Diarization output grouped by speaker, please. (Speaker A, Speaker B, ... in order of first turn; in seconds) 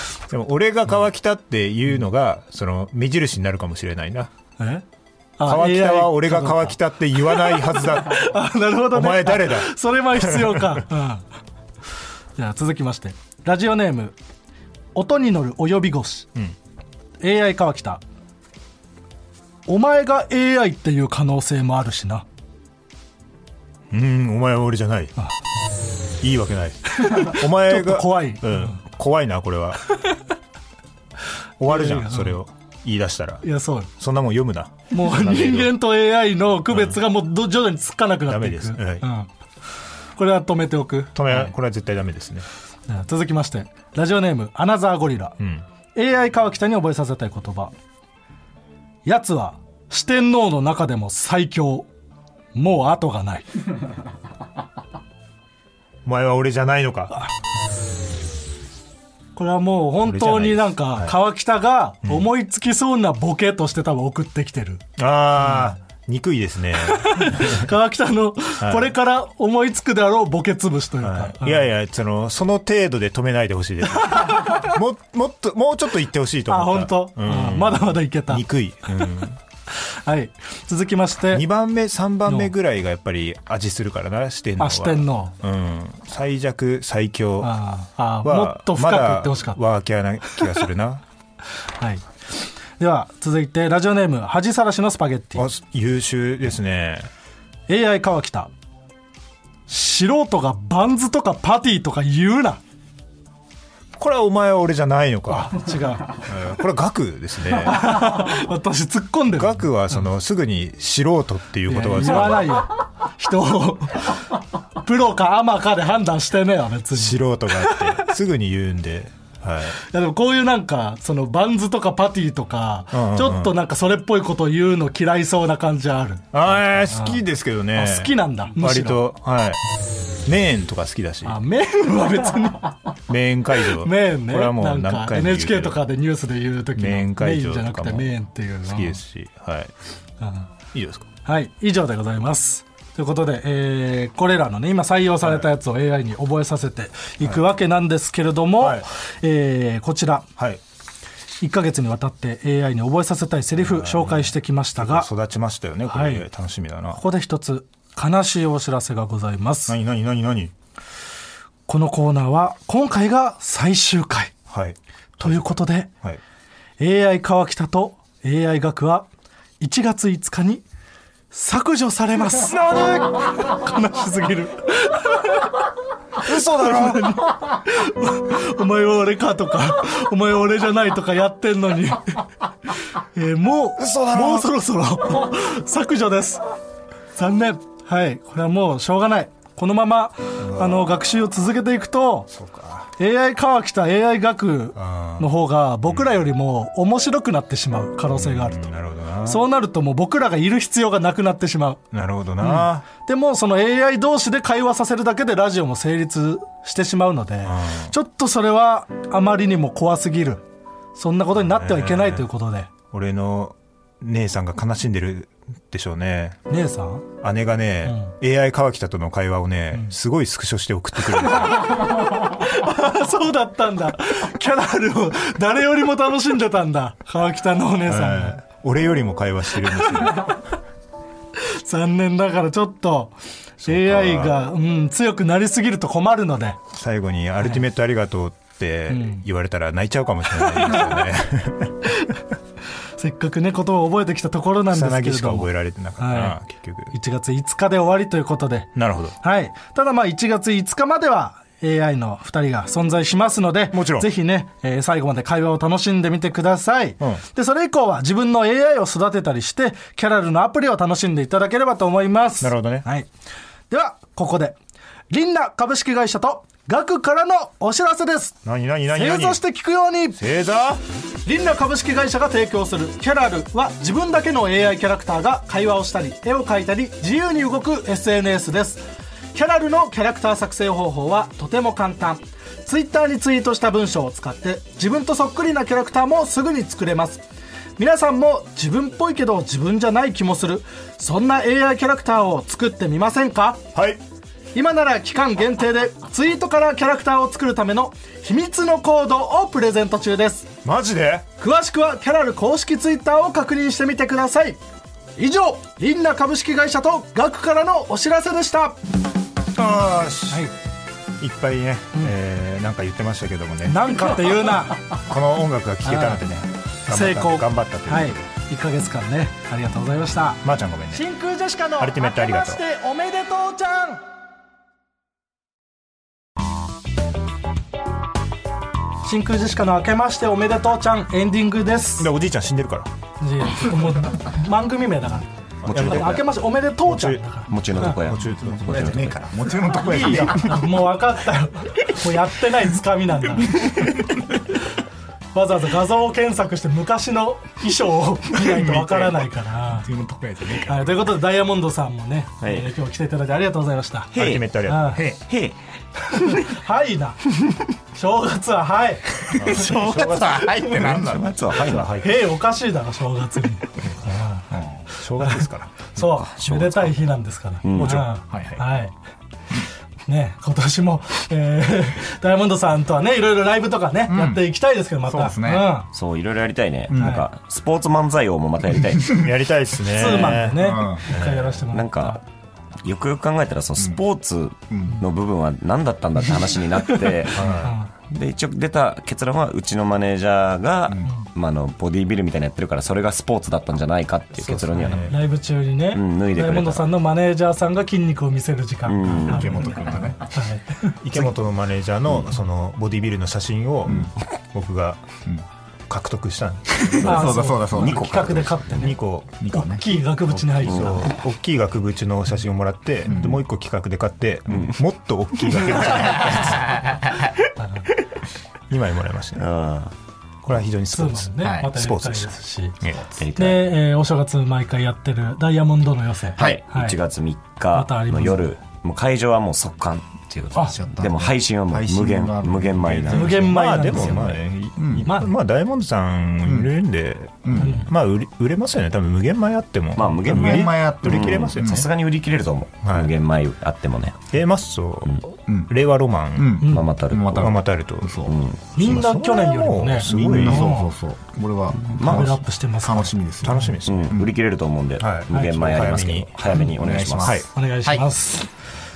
Speaker A: 0.3-4.3, 5.4-8.3, 8.8-10.8, 23.9-25.1, 26.2-29.8, 31.6-33.4, 34.0-35.7, 36.7-37.0, 38.3-39.0, 41.1-42.4, 45.4-45.6, 56.0-57.2, 60.0-61.1, 65.0-67.7, 68.6-68.9, 71.0-79.4, 81.3-87.5, 88.2-91.0, 95.3-97.1, 104.0-108.3, 109.3-112.6, 116.9-119.8, 122.9-123.5, 126.3-129.6, 130.2-131.4, 133.1-135.8, 136.7-139.7, 140.7-141.1, 148.6-148.8, 153.5-157.0, 159.7-160.5, 164.5-166.2, 172.4-173.3, 176.2-177.2, 183.8-184.5, 190.4-191.0, 192.3-192.9, 194.7-195.3, 195.9-196.1, 198.1-199.4, 201.9-202.8, 207.4-207.9, 211.3-212.2, 212.9-216.4, 217.2-221.8, 227.8-230.4, 233.6-234.4, 236.7-241.9, 244.7-246.9, 248.7-249.1, 253.7-254.1, 262.4-262.9, 268.4-269.4, 270.2-270.8, 293.7-294.0, 300.6-301.2, 309.5-310.5, 311.2-318.2, 320.4-321.0, 321.8-322.6, 332.0-332.9, 335.6-336.2, 336.8-337.2, 337.9-339.1, 348.5-349.2, 354.1-355.2, 359.3-362.2, 364.9-365.7, 367.7-368.1, 379.2-381.5, 387.3-387.8, 394.4-395.2, 401.0-405.0, 405.9-407.4, 408.7-409.5, 410.4-416.8, 418.7-419.5, 420.4-423.0, 433.1-441.8, 442.8-443.1, 444.3-446.6, 447.3-448.2, 448.8-450.7, 453.4-454.2, 455.0-456.3, 457.2-457.5
Speaker B: 4.6-4.8, 5.4-11.2, 12.3-14.2, 14.9-16.3, 17.2-18.0, 19.7-22.2, 26.9-28.8, 29.9-30.2, 31.7-32.4, 33.4-33.9, 34.9-39.3, 40.1-41.5, 42.9-45.4, 45.9-47.7, 49.0-51.9, 52.5-53.5, 59.4-64.8, 65.4-65.7, 66.9-71.7, 74.1-74.8, 76.5-78.4, 79.7-81.5, 82.2-82.5, 84.6-85.3, 87.4-89.6, 91.8-92.0, 92.8-95.5, 97.7-98.5, 99.7-102.6, 105.3-106.3, 107.6-110.0, 111.7-118.1, 119.8-127.2, 127.7-129.1, 131.2-132.9, 133.8-139.0, 140.2-140.5, 141.2-150.3, 151.4-155.1, 155.9-156.2, 156.9-159.8, 161.7-164.3, 165.2-165.9, 166.8-169.1, 169.6-170.6, 171.3-175.6, 176.2-182.3, 182.9-186.4, 187.1-192.3, 193.0-198.7, 199.2-201.8, 202.4-210.4, 210.9-212.7, 216.5-217.1, 217.8-218.1, 221.2-228.4, 229.7-230.4, 231.3-236.6, 238.9-239.2, 243.0-246.4, 246.9-248.7, 249.2-263.1, 263.7-264.6, 265.1-268.4, 268.9-270.2, 271.2-287.2, 287.8-293.7, 294.5-300.5, 301.4-304.6, 305.2-308.8, 313.6-314.9, 315.8-316.2, 316.9-324.0, 329.0-332.1, 333.2-337.9, 339.8-343.9, 345.3-349.9, 350.6-354.1, 354.6-355.0, 356.0-357.3, 357.9-359.6, 361.9-368.9, 370.1-375.9, 377.0-377.2, 379.9-382.2, 386.7-387.9, 395.0-401.0, 407.0-409.0, 409.5-411.1, 417.6-417.9, 420.9-422.8, 423.4-426.9, 427.7-428.4, 433.1-434.4, 435.0-435.3, 446.6-446.9, 448.7-450.9, 451.9-453.8, 457.5-458.5
Speaker C: 335.7-336.2, 337.5-339.2, 352.4-352.7, 354.1-355.6, 361.1-361.9, 365.9-367.0, 367.6-368.1, 375.9-379.3, 381.7-382.2, 382.8-387.5, 388.1-395.2, 395.9-396.9, 398.9-399.7, 407.1-408.9, 410.6-411.0, 414.5-414.7, 419.4-419.9, 423.1-423.7, 426.4-433.5, 439.9-444.3, 446.7-447.5, 448.2-448.6, 451.9-452.3, 453.8-457.4
Speaker D: 338.6-340.6, 349.7-351.0, 359.3-361.6, 364.5-364.8, 368.3-368.6, 374.1-374.4, 375.1-375.7, 376.9-377.2, 380.1-381.0, 384.7-385.0, 390.9-391.1, 399.1-400.3, 403.9-404.1, 406.7-408.2, 409.4-409.8, 413.1-413.4, 421.4-421.7, 430.7-433.9, 434.8-435.1, 436.4-436.7, 437.4-437.8, 440.2-441.9, 446.4-449.1, 450.0-454.3, 456.5-458.0